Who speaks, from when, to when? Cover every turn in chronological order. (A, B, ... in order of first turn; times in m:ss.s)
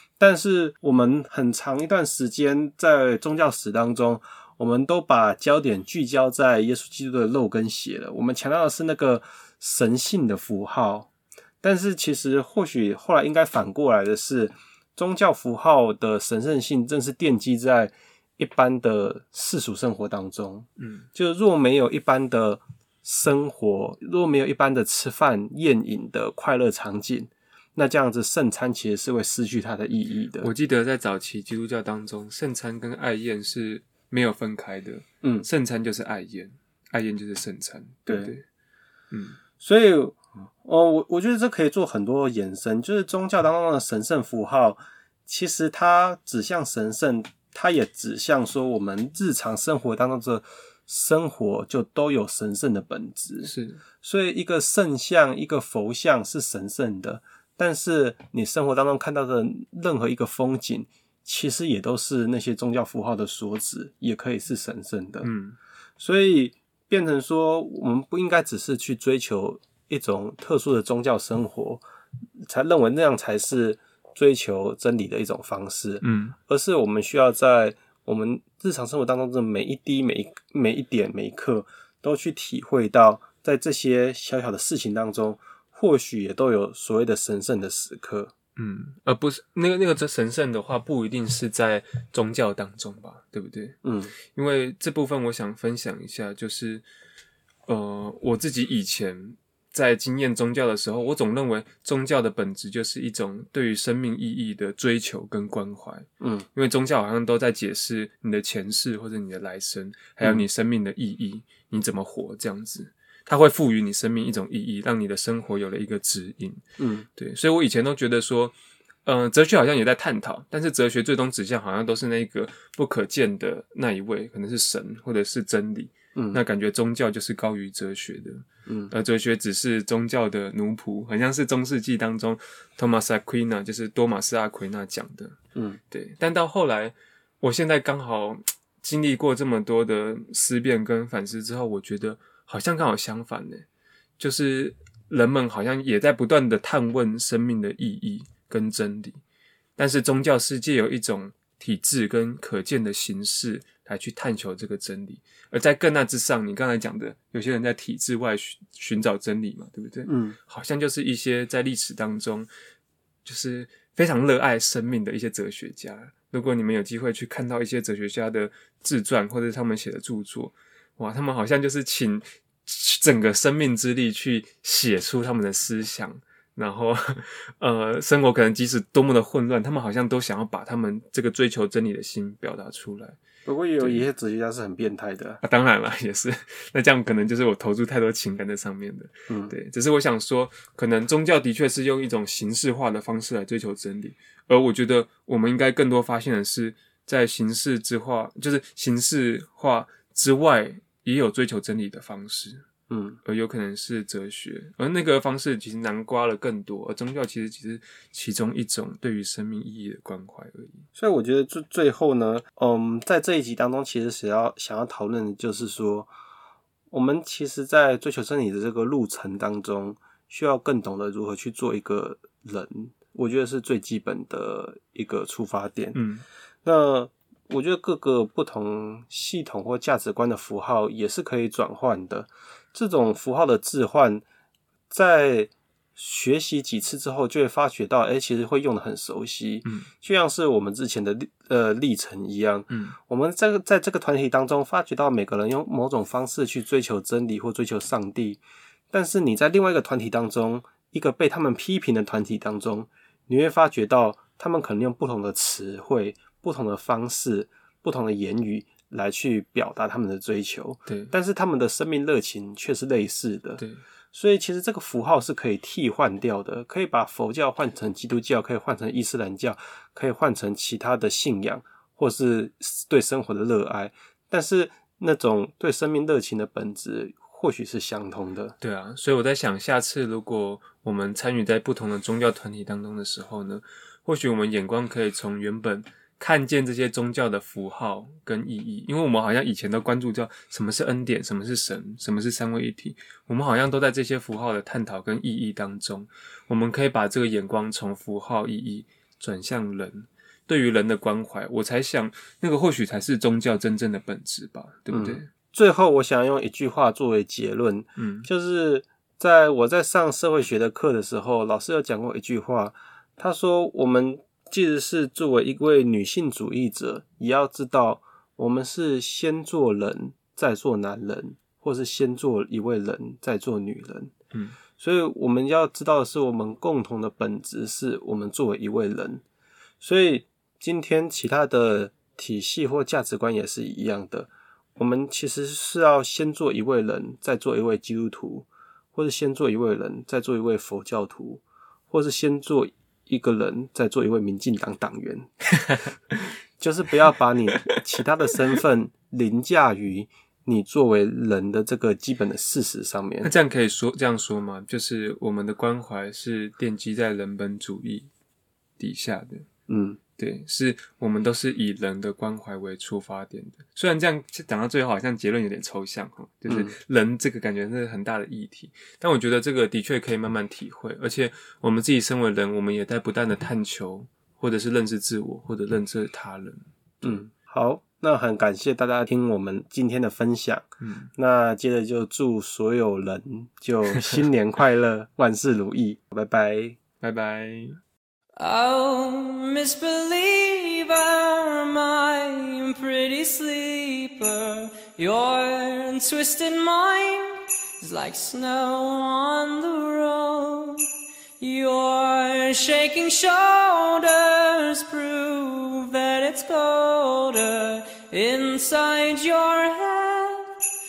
0:00.2-0:11.1 A
0:11.6-0:30.5 A
0:20.8-0:21.1 B
0:30.4-0:38.4 B
0:35.2-0:35.5 A
0:38.0-0:38.4 A
0:39.1-0:39.4 B
0:39.6-1:05.3 A
0:53.4-0:53.8 B
1:05.2-1:05.6 B
1:06.0-1:11.8 A
1:12.5-1:28.3 A
1:16.0-1:16.4 B
1:28.6-1:33.8 B
1:33.8-1:34.1 A
1:34.3-1:36.8 B
1:37.7-1:56.6 B
1:46.2-1:46.5 A
1:56.8-1:57.1 A
1:57.2-2:15.4 B
2:06.1-2:06.4 A
2:08.6-2:08.9 A
2:15.5-2:15.8 A
2:15.9-2:23.6 B
2:24.2-2:29.2 B
2:29.8-2:42.5 B
2:40.0-2:40.4 A
2:43.2-3:03.2 B
3:03.4-3:05.4 A
3:03.8-3:04.0 B
3:05.4-3:22.6 B
3:09.3-3:09.5 A
3:22.9-3:23.2 A
3:23.2-3:30.8 B
3:30.9-3:36.1 A
3:36.9-3:46.0 A
3:45.9-3:46.2 B
3:46.6-3:54.2 A
3:54.9-4:38.5 A
4:02.7-4:03.0 B
4:20.9-4:21.1 B
4:38.6-5:05.3 B
5:04.9-5:24.1 A
5:08.0-5:08.3 B
5:24.3-5:24.6 B
5:24.8-5:29.2 A
5:29.8-5:45.3 A
5:46.6-5:53.3 A
5:53.2-5:58.1 B
5:58.8-5:59.5 B
5:59.7-6:00.0 A
6:00.2-6:17.2 B
6:06.5-6:06.7 A
6:17.0-6:26.8 A
6:20.8-6:21.1 B
6:27.0-6:27.8 B
6:28.4-6:40.9 C
6:41.4-6:50.5 C